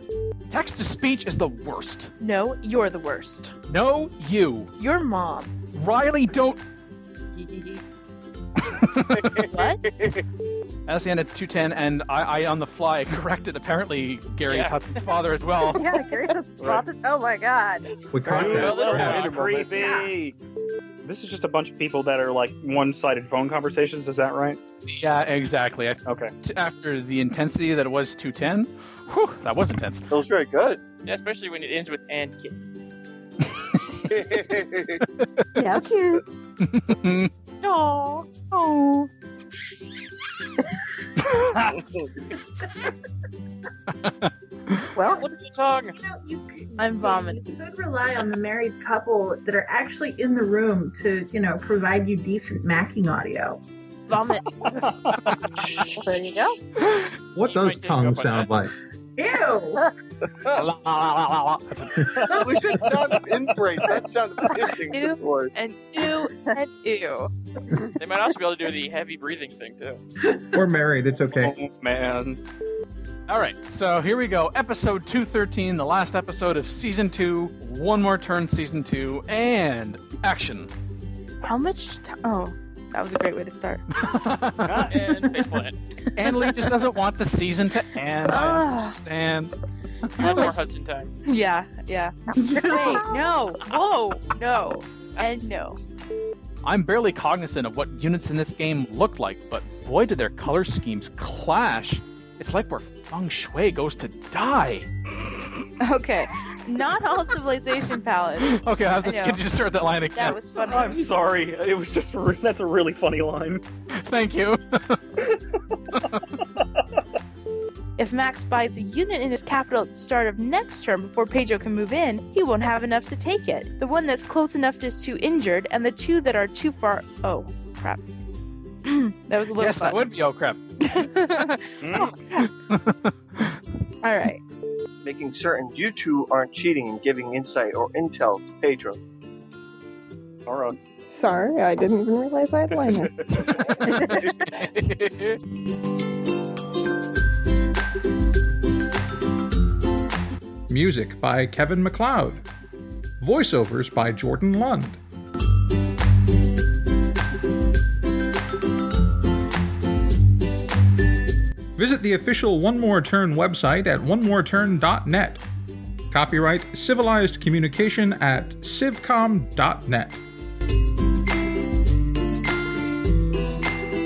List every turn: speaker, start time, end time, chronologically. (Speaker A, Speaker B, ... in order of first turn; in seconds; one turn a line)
Speaker A: 0.5-2.1
Speaker B: 2.2-3.5
Speaker A: 3.7-4.7
Speaker B: 4.8-5.5
Speaker A: 5.7-6.6
Speaker B: 7.4-7.8
Speaker A: 8.9-9.2
Speaker C: 9.1-9.4
Speaker B: 9.5-9.8
Speaker A: 10.9-16.0
Speaker D: 14.4-15.0
Speaker E: 15.7-17.9
Speaker F: 18.1-19.3
Speaker G: 18.2-20.4
Speaker D: 18.6-19.6
Speaker C: 19.0-19.9
Speaker E: 19.7-20.1
Speaker G: 21.0-24.6
Speaker A: 24.9-30.1
Speaker G: 26.1-26.3
Speaker C: 30.1-30.8
Speaker D: 31.0-32.6
Speaker C: 34.1-35.0
Speaker A: 35.2-35.5
Speaker E: 35.5-36.4
Speaker A: 36.6-37.3
Speaker D: 37.6-38.2
Speaker A: 38.5-39.1
Speaker A: 41.4-41.7
Speaker A: 43.9-44.9
Speaker E: 45.0-45.3
Speaker D: 45.2-46.0
Speaker H: 46.0-53.6
Speaker B: 46.8-47.5
Speaker B: 54.1-54.5
Speaker G: 54.6-55.1
Speaker E: 55.8-56.6
Speaker F: 57.4-58.7
Speaker D: 57.4-58.6
Speaker H: 59.2-59.8
Speaker A: 60.5-62.4
Speaker G: 62.2-63.2
Speaker C: 62.3-65.5
Speaker B: 64.9-67.3
Speaker D: 68.0-70.0
Speaker F: 70.5-71.6
Speaker G: 71.4-72.4
Speaker A: 73.3-80.7
Speaker B: 81.4-83.8
Speaker A: 84.0-84.9
Speaker G: 84.6-85.0
Speaker D: 84.9-85.8
Speaker A: 86.2-89.5
Speaker B: 88.2-89.0
Speaker D: 90.2-91.1
Speaker B: 90.2-90.6
Speaker B: 91.2-95.8
Speaker H: 92.4-93.0
Speaker A: 96.6-104.9
Speaker B: 105.8-109.4
Speaker A: 108.4-110.4
Speaker B: 110.1-111.1
Speaker G: 110.5-113.6
Speaker A: 114.0-115.3
Speaker A: 115.9-116.2
Speaker B: 118.0-128.0
Speaker B: 128.9-130.1
Speaker A: 129.5-130.6
Speaker B: 130.8-132.5
Speaker G: 131.8-132.2
Speaker A: 132.7-133.4
Speaker B: 134.0-134.4
Speaker C: 135.0-139.0
Speaker G: 140.5-140.8
Speaker I: 141.1-143.1
Speaker G: 142.7-143.7
Speaker A: 143.9-145.4
Speaker F: 150.7-152.4
Speaker F: 153.2-155.0
Speaker F: 161.8-165.4
Speaker F: 166.1-170.2